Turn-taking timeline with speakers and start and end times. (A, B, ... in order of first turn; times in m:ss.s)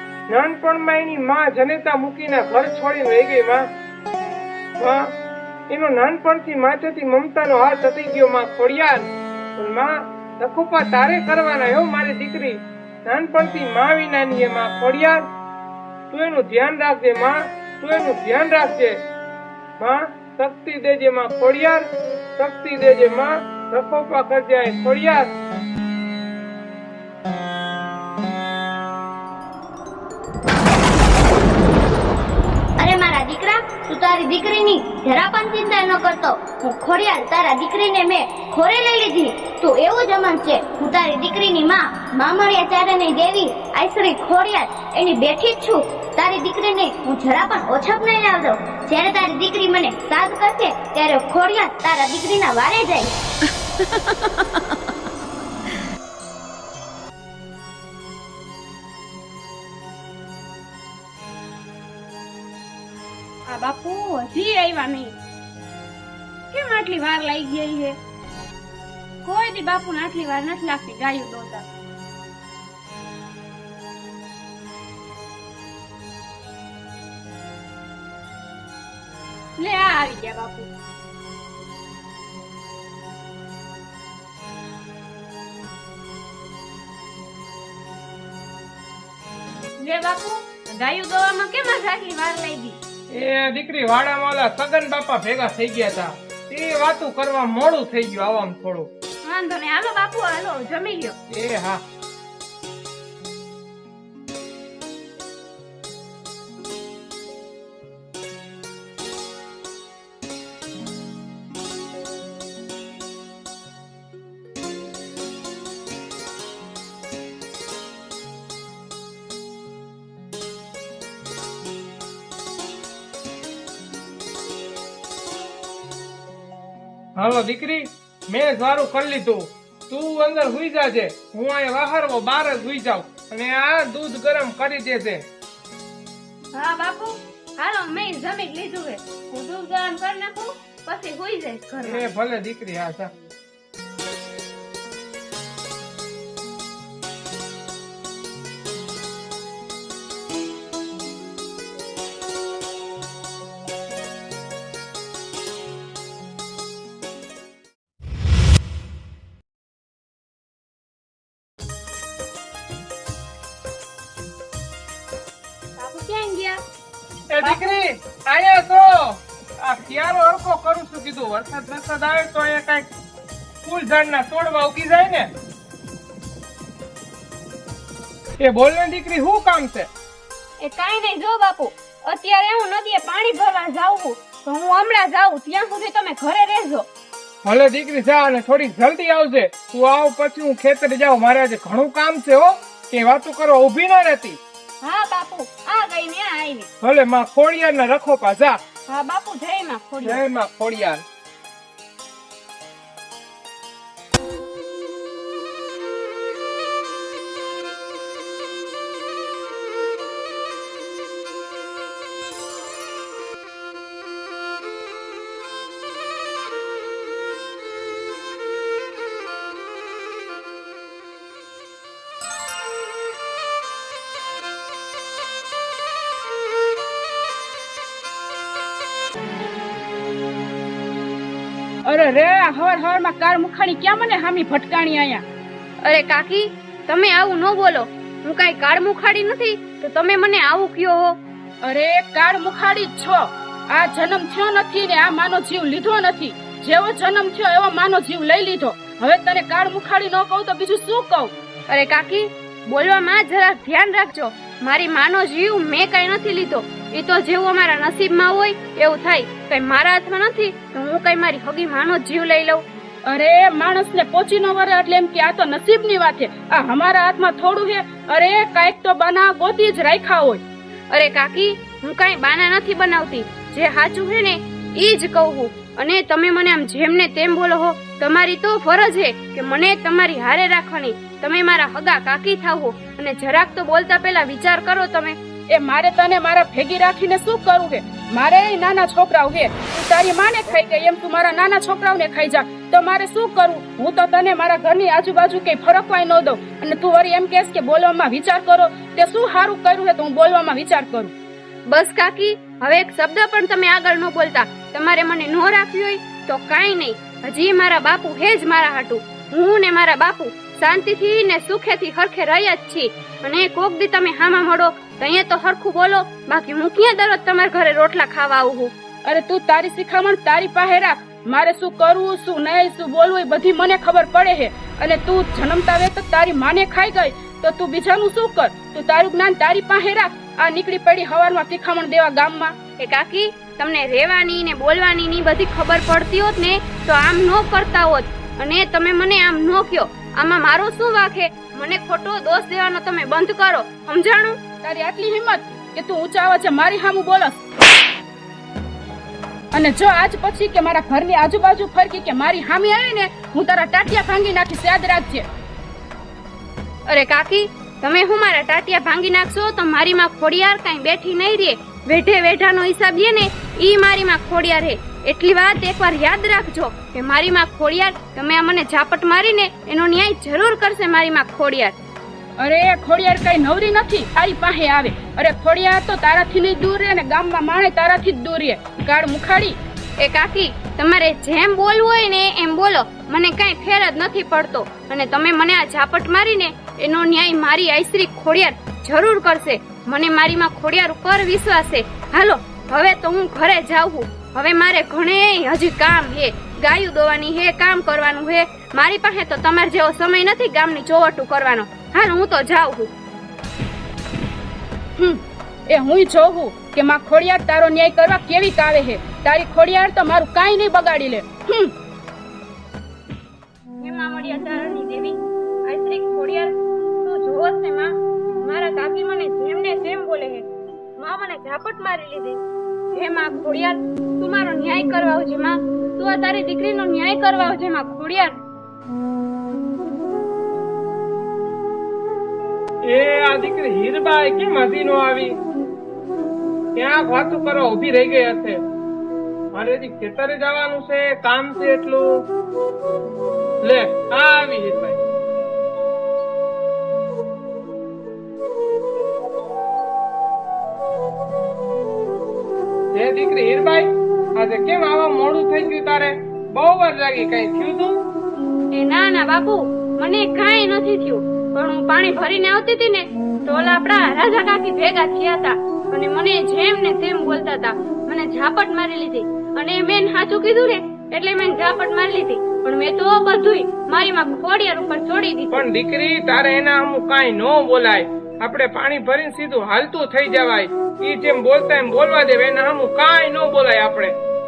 0:00.3-0:03.6 A
0:04.8-0:05.1 A
0:05.7-0:15.2 A
0:16.1-0:19.0 A
0:19.8-0:25.3 A
0:32.8-0:53.1 B
1:03.5-1:05.2 C
1:06.5-1:08.0 C
1:09.2-1:11.6 C
1:19.6-1:20.7 C
1:29.8-1:32.8 C
1:33.1-1:38.9 A
1:39.2-1:41.2 C
1:41.3-1:41.8 A
2:07.2-2:15.2 A
2:16.5-2:22.1 C
2:21.8-2:23.1 A
2:45.8-2:46.6 C
2:47.3-2:52.9 A
2:53.6-2:55.3 A
2:58.4-2:59.9 A
3:00.6-3:06.9 C
3:07.4-3:14.4 A
3:14.8-3:16.7 C
3:16.8-3:18.6 A
3:18.9-3:20.2 C
3:20.0-3:21.0 A
3:51.8-3:55.2 D
3:55.8-4:01.2 C
4:01.6-4:11.3 D
4:11.7-4:22.6 C
4:23.0-4:30.4 D
4:30.9-4:45.2 C
4:45.5-5:01.1 D
5:01.7-5:18.7 C
5:19.0-5:32.6 D
5:32.8-5:44.4 C
5:44.6-5:47.4 D
5:49.5-5:55.2 D
5:56.9-6:11.8 C
6:12.4-6:19.6 D
6:20.0-6:42.9 C
6:45.0-6:51.7 D
6:53.8-7:02.4 C
7:02.9-7:08.4 C
7:12.8-7:15.4 A
7:16.8-7:18.6 A
7:19.5-7:22.2 A
7:23.6-7:25.0 A
7:32.9-7:38.0 A
7:38.7-7:55.6 C
7:55.5-8:04.2 A